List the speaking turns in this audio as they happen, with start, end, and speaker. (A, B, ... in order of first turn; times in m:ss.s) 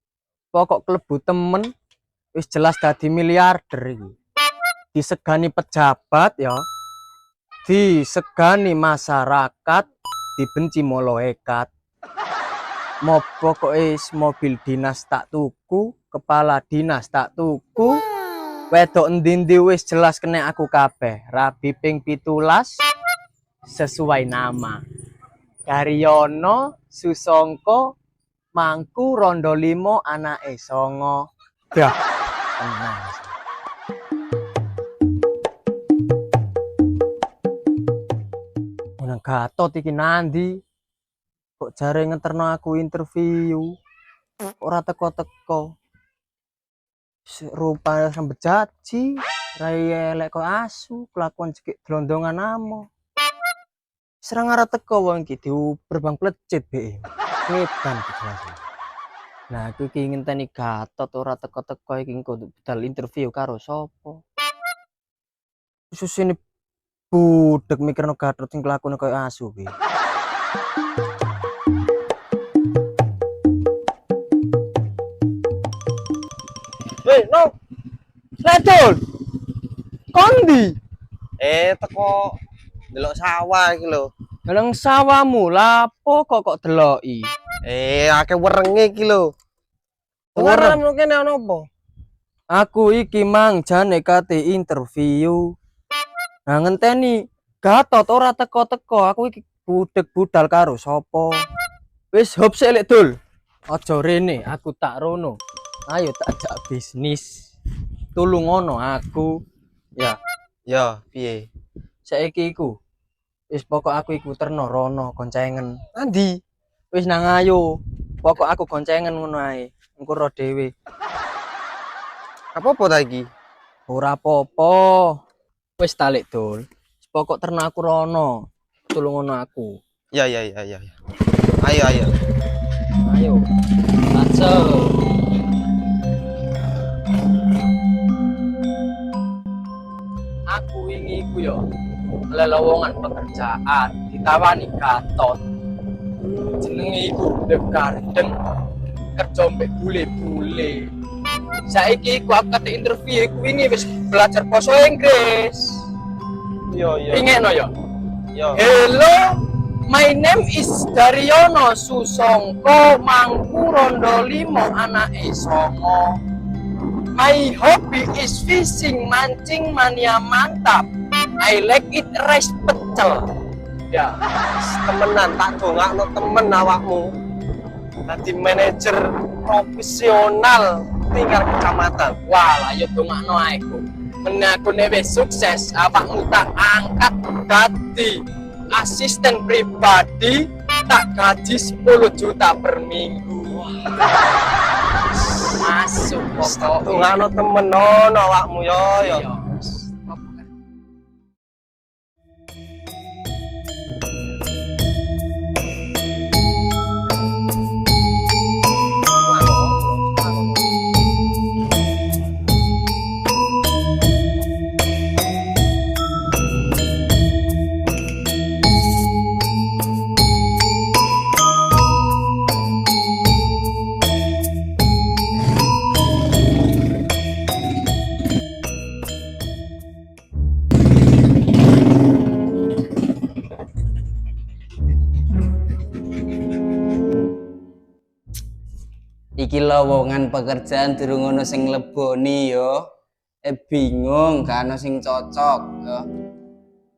0:00.5-0:01.7 A
0:02.4-0:04.2 A
0:04.9-0:06.6 A
0:07.7-0:11.7 A
0:13.0-0:18.0 A
0:18.7-0:22.8 A
0:23.7-0:24.8 A
0:25.7-0:27.9 A
0:28.6-0:32.0 A
0:32.6-0:33.3 A
0:39.0-0:40.6 A
0:41.6-0:43.7 A
0:44.6-0:45.7 A
0:47.3-0:52.9 A
0:54.2-0:58.6 A
0:59.5-1:04.2 A
1:05.9-1:06.4 A
1:07.1-1:09.7 A
1:17.0-1:17.5 B
1:18.4-1:19.0 A
1:20.1-1:20.8 A
1:21.4-1:22.4 B
1:22.9-1:24.1 B
1:24.5-1:27.3 A
1:27.6-1:29.3 B
1:30.4-1:31.7 B
1:30.4-1:30.8 A
1:32.5-1:35.4 A
1:36.5-1:41.4 A
1:42.1-1:43.1 A
1:43.7-1:45.4 A
1:45.9-1:47.5 A
1:48.2-1:49.3 A
1:50.7-1:51.5 B
1:52.0-1:52.8 A
1:53.5-1:55.8 A
1:56.0-1:56.4 B
1:56.9-1:57.6 A
1:58.2-2:00.7 A
2:02.6-2:03.3 B
2:03.9-2:05.2 A
2:05.8-2:08.4 A
2:08.9-2:09.8 A
2:10.1-2:10.9 B
2:11.6-2:12.1 B
2:13.0-2:13.5 A
2:14.1-2:15.0 A
2:20.5-2:21.6 A
2:22.3-2:25.4 A
2:26.5-2:28.3 A
2:29.2-2:30.9 A
2:31.7-2:35.8 A
2:36.7-2:37.3 B
2:37.1-2:37.7 A
2:38.3-2:38.6 B
2:38.5-2:46.2 A
2:47.1-2:50.9 A
2:51.4-2:53.3 A
2:53.9-2:54.2 A
2:54.6-2:57.1 B
2:58.1-3:02.2 B
3:02.3-3:14.2 A
3:15.1-3:17.2 A
3:16.4-3:19.2 B
3:19.0-3:20.4 A
3:29.1-3:30.7 B
3:59.4-4:02.9 C
4:03.4-4:06.1 C